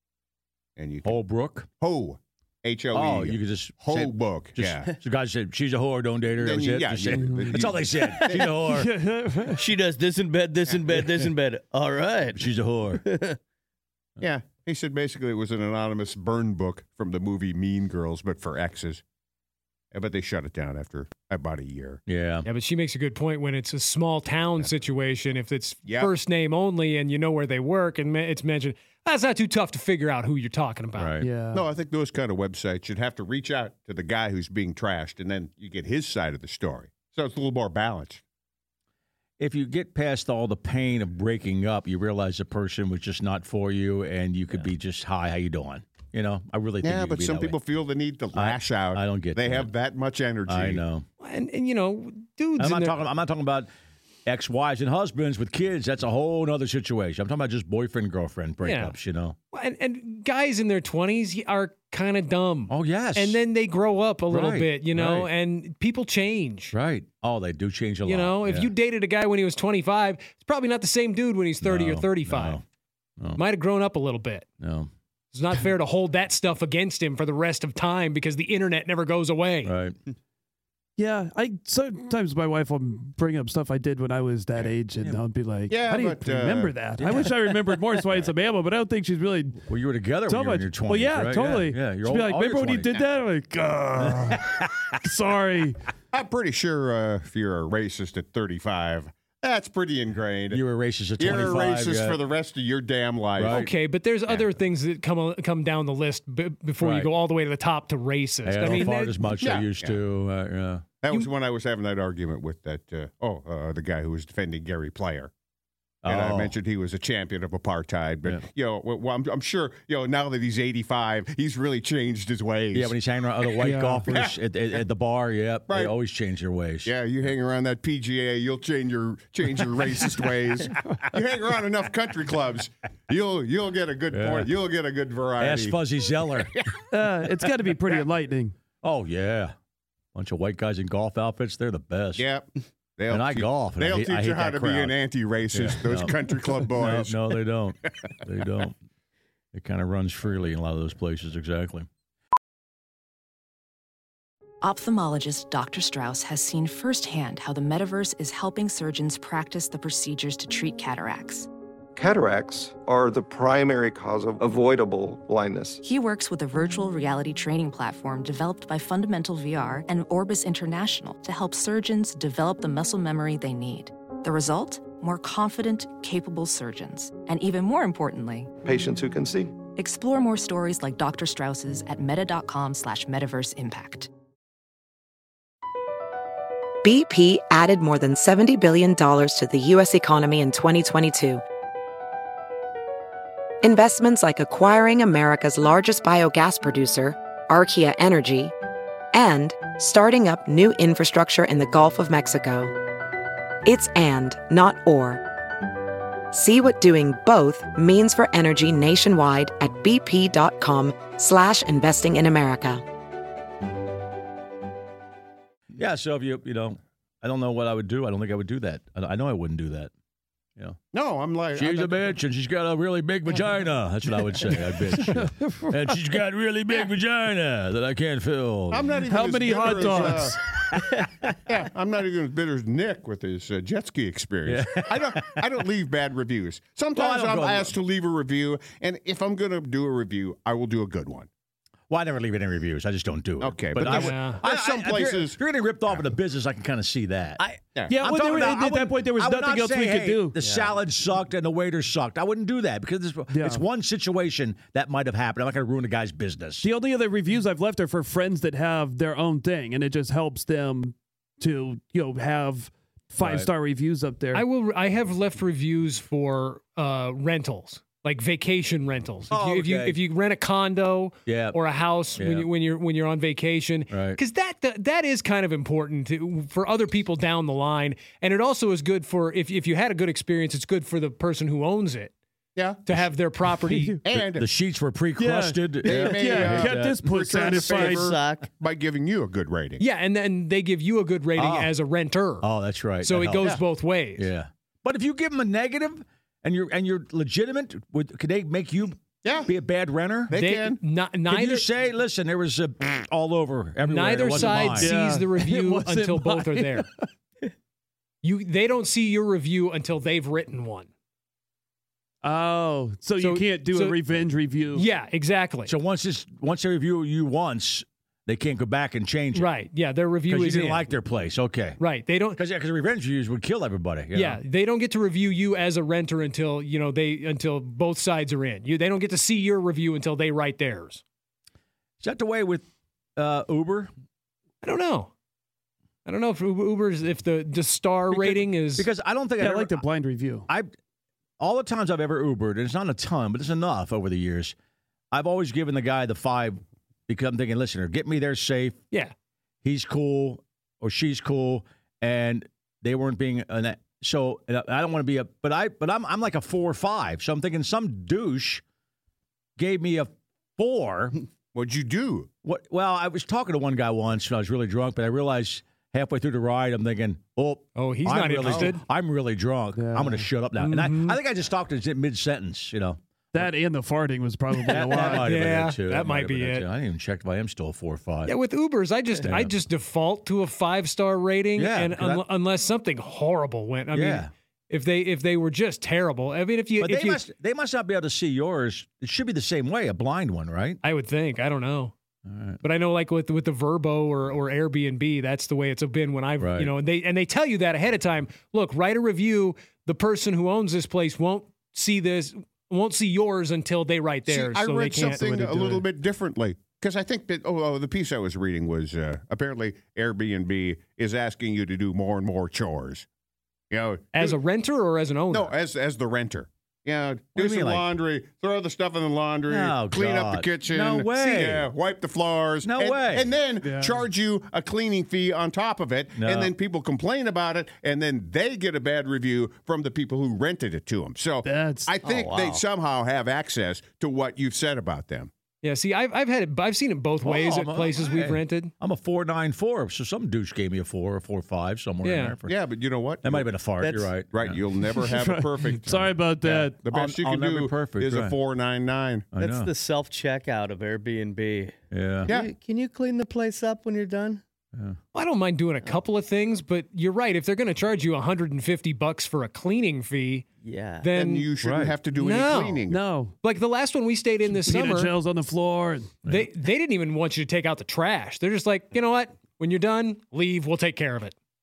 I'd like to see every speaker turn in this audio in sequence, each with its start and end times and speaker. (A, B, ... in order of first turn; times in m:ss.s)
0:00.8-0:01.2 A
0:01.0-0:01.7 B
0:01.8-0:04.9 A
0:02.9-0:08.9 B
0:06.4-0:08.4 A
0:07.1-0:07.5 C
0:08.1-0:08.4 D
0:08.7-0:09.6 C
0:09.6-0:12.5 D
0:12.3-0:13.0 B
0:13.0-0:13.4 D
0:14.2-0:19.0 A
0:19.9-0:22.0 A
0:22.1-0:22.5 B
0:22.4-0:31.1 E
0:25.8-0:26.1 A
0:31.0-0:31.3 B
0:31.2-0:31.6 C
0:31.5-0:38.2 A
0:39.4-0:47.6 B
0:46.8-0:50.8 A
0:48.3-0:49.7 B
0:50.5-0:51.0 B
0:51.2-0:52.9 E
0:52.6-0:53.7 B
0:54.2-0:59.4 B
0:58.6-0:58.9 E
0:59.5-1:06.7 E
1:02.7-1:03.4 B
1:04.3-1:05.3 B
1:06.7-1:08.7 B
1:08.0-1:12.6 E
1:11.6-1:12.6 B
1:13.3-1:14.5 E
1:14.6-1:14.9 B
1:15.3-1:19.7 E
1:19.6-1:20.0 B
1:21.0-1:29.7 C
1:25.7-1:26.7 A
1:27.0-1:27.3 B
1:29.7-1:33.0 B
1:30.3-1:34.5 C
1:34.0-1:34.7 B
1:35.0-1:35.8 C
1:36.1-1:40.6 A
1:40.5-1:42.2 B
1:41.2-1:43.7 A
1:43.4-1:43.7 B
1:43.5-1:49.2 E
1:46.8-1:47.1 B
1:48.4-1:50.8 B
1:49.4-1:50.0 A
1:51.0-1:55.3 A
1:56.0-1:56.5 B
1:56.0-2:02.9 A
2:02.7-2:06.9 B
2:04.0-2:04.3 A
2:06.8-2:15.8 A
2:14.1-2:14.5 B
2:15.4-2:16.6 B
2:16.9-2:18.6 C
2:18.8-2:19.5 B
2:20.1-2:22.2 B
2:22.2-2:27.2 A
2:23.1-2:24.9 B
2:25.5-2:26.1 B
2:26.7-2:28.8 B
2:29.5-2:31.9 B
2:34.6-2:41.5 F
2:41.9-2:45.8 G
2:45.8-2:58.5 F
2:58.6-2:59.5 G
2:59.8-3:04.1 F
3:06.8-3:11.4 H
3:13.6-3:18.5 H
3:19.1-3:22.7 H
3:23.6-3:25.2 H
3:26.3-3:32.8 H
3:35.7-3:39.9 B
3:40.9-3:42.1 A
3:41.5-3:49.0 B
3:45.1-3:45.7 C
3:48.7-3:50.4 A
3:49.0-3:50.4 C
3:51.4-4:01.3 A
3:54.4-3:55.4 B
3:57.0-3:57.7 B
4:01.9-4:07.4 B
4:03.4-4:06.1 A
4:03.8-4:04.4 E
4:07.4-4:07.7 D
4:07.9-4:10.4 C
4:08.0-4:16.7 B
4:10.4-4:10.7 D
4:13.3-4:13.6 C
4:16.6-4:24.4 C
4:23.2-4:23.5 B
4:24.3-4:42.1 E
4:29.3-4:30.0 B
4:31.2-4:31.6 B
4:32.2-4:32.5 B
4:33.9-4:34.2 B
4:42.6-4:42.8 A
4:42.8-4:44.0 E
4:43.7-4:44.0 C
4:44.0-4:44.4 A
4:44.1-4:47.0 B
4:45.2-4:48.1 C
4:45.8-4:49.8 A
4:47.3-4:48.5 D
4:49.8-4:52.4 E
4:51.4-4:51.7 B
4:52.4-4:53.6 B
4:53.0-4:54.3 E
4:54.2-5:00.3 B
4:59.2-4:59.5 A
5:00.3-5:00.8 A
5:00.3-5:01.6 E
5:01.3-5:04.9 B
5:03.8-5:06.9 E
5:04.3-5:07.0 C
5:08.2-5:10.9 E
5:12.2-5:14.8 C
5:13.2-5:14.0 E
5:14.7-5:15.7 E
5:15.6-5:19.5 B
5:19.3-5:20.9 E
5:20.3-5:21.8 B
5:21.8-5:22.4 E
5:22.4-5:24.4 B
5:24.1-5:31.0 E
5:32.0-5:33.9 B
5:34.6-5:35.1 E
5:36.0-5:38.9 E
5:38.1-5:39.8 B
5:39.4-5:40.5 C
5:41.4-5:44.5 B
5:45.1-5:48.8 B
5:49.6-5:58.6 B
5:59.6-6:01.2 B
6:01.5-6:02.3 A
6:02.4-6:13.5 B
6:07.8-6:08.8 E
6:09.7-6:10.3 C
6:10.6-6:11.2 E
6:13.3-6:15.4 C
6:14.7-6:18.3 B
6:15.1-6:16.6 E
6:18.2-6:27.2 E
6:19.2-6:19.5 B
6:21.6-6:22.2 B
6:23.9-6:24.3 B
6:26.8-6:30.8 B
6:30.8-6:31.9 E
6:32.2-6:32.6 B
6:32.6-6:45.8 E
6:36.4-6:36.7 B
6:44.3-6:53.0 A
6:53.7-6:54.4 A
6:54.1-6:55.5 E
6:55.3-7:15.3 A
6:57.4-6:57.8 B
6:59.5-7:01.7 B
7:02.6-7:03.3 B
7:03.6-7:04.0 C
7:06.2-7:06.5 B
7:11.4-7:12.0 C
7:12.0-7:12.6 D
7:15.6-7:18.7 E
7:17.2-7:22.5 B
7:22.0-7:22.3 E
7:22.4-7:23.5 A
7:23.2-7:24.6 B
7:23.8-7:24.2 D
7:24.3-7:29.3 A
7:24.9-7:26.8 C
7:26.9-7:28.4 B
7:29.3-7:29.7 B
7:29.4-7:34.4 D
7:31.9-7:32.3 B
7:35.1-7:40.4 E
7:40.6-7:41.1 D
7:41.0-7:41.5 E
7:41.1-7:43.0 A
7:41.6-7:41.9 B
7:42.1-7:42.8 E
7:42.9-7:43.3 C
7:43.4-7:45.1 E
7:44.5-7:46.2 C
7:46.2-7:51.3 E